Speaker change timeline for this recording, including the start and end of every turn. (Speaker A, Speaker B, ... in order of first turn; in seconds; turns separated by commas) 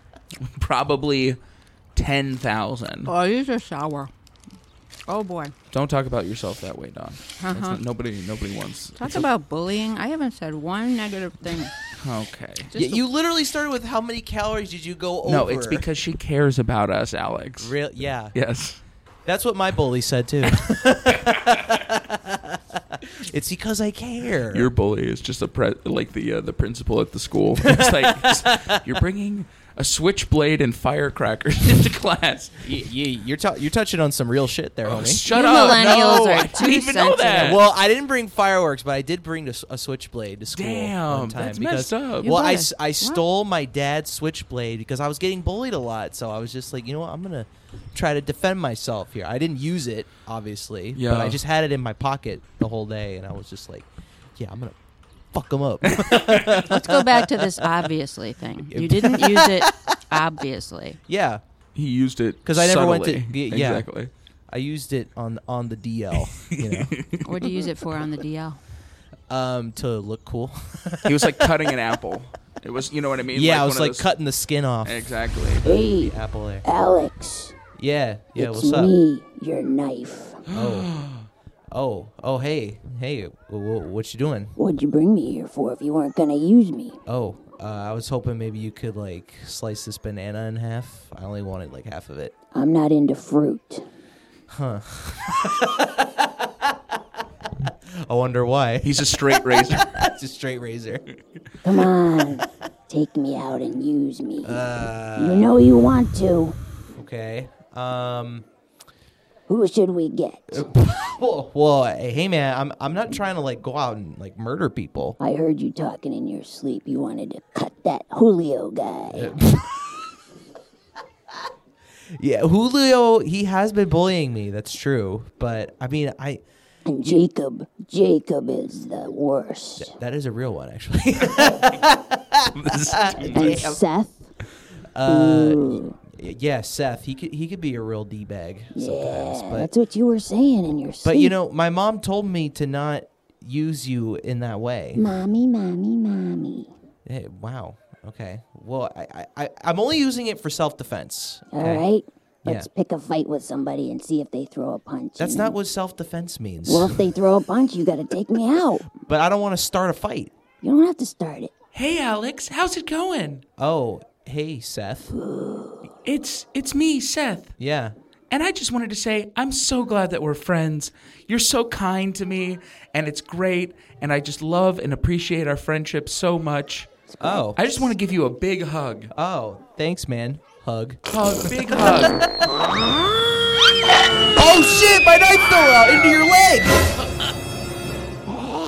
Speaker A: 0.4-1.4, Speaker A: 2.0-3.1, Speaker B: 3.1-4.1, Speaker B: 5.1-5.5, Speaker A: 5.7-9.3, Speaker B: 7.4-7.8, Speaker B: 9.0-11.7, Speaker A: 12.0-12.7, Speaker B: 12.7-13.0, Speaker C: 12.7-15.8, Speaker A: 15.2-17.8, Speaker C: 17.6-18.4, Speaker A: 18.3-18.8, Speaker C: 19.2-24.7, Speaker A: 21.1-21.8, Speaker A: 24.5-32.6, Speaker C: 27.6-28.8, Speaker C: 32.6-35.2, Speaker A: 34.9-37.6, Speaker B: 35.3-37.6, Speaker C: 37.4-54.8, Speaker A: 40.5-42.4, Speaker B: 42.2-43.2, Speaker A: 50.9-51.4, Speaker C: 55.3-57.9, Speaker A: 55.9-56.6, Speaker B: 56.6-61.0, Speaker C: 58.7-60.0, Speaker C: 61.1-61.4, Speaker A: 61.8-64.1, Speaker C: 62.5-63.9, Speaker C: 64.5-67.0, Speaker A: 66.4-67.3, Speaker B: 67.2-68.6, Speaker C: 69.3-71.7, Speaker A: 71.0-74.1, Speaker C: 73.3-75.1, Speaker A: 74.8-75.7, Speaker C: 75.6-76.7, Speaker D: 75.6-77.5, Speaker C: 77.8-78.9, Speaker D: 78.4-80.4, Speaker A: 80.5-81.3, Speaker C: 80.5-80.9, Speaker C: 81.7-84.5, Speaker D: 84.6-87.0, Speaker C: 87.1-92.3, Speaker D: 92.5-93.9, Speaker C: 94.5-96.8, Speaker C: 97.7-101.0, Speaker A: 98.8-99.9, Speaker D: 101.6-104.6, Speaker C: 104.4-105.5, Speaker D: 105.2-106.6, Speaker C: 107.0-108.5, Speaker D: 109.5-110.7, Speaker C: 110.5-115.2, Speaker D: 115.2-119.3, Speaker C: 119.1-119.8, Speaker C: 122.2-126.4, Speaker D: 126.9-129.9, Speaker C: 129.8-133.8, Speaker A: 132.5-133.6, Speaker D: 133.3-134.2, Speaker C: 134.9-139.7, Speaker D: 135.1-135.9, Speaker D: 138.8-141.3, Speaker C: 141.0-145.1, Speaker D: 144.9-146.7, Speaker C: 147.1-151.8, Speaker D: 151.5-155.6, Speaker C: 155.2-157.0, Speaker D: 156.7-158.9, Speaker C: 159.0-160.3, Speaker D: 160.6-161.5, Speaker A: 161.7-163.4, Speaker C: 163.6-165.1, Speaker D: 165.1-165.9, Speaker A: 166.0-167.5, Speaker C: 167.6-167.9, Speaker A: 168.3-176.9, Speaker D: 177.2-177.4, Speaker C: 177.2-177.9, Speaker A: 177.6-179.1, Speaker C: 179.1-182.6, Speaker A: 181.1-182.3, Speaker C: 184.3-187.0, Speaker A: 187.0-187.3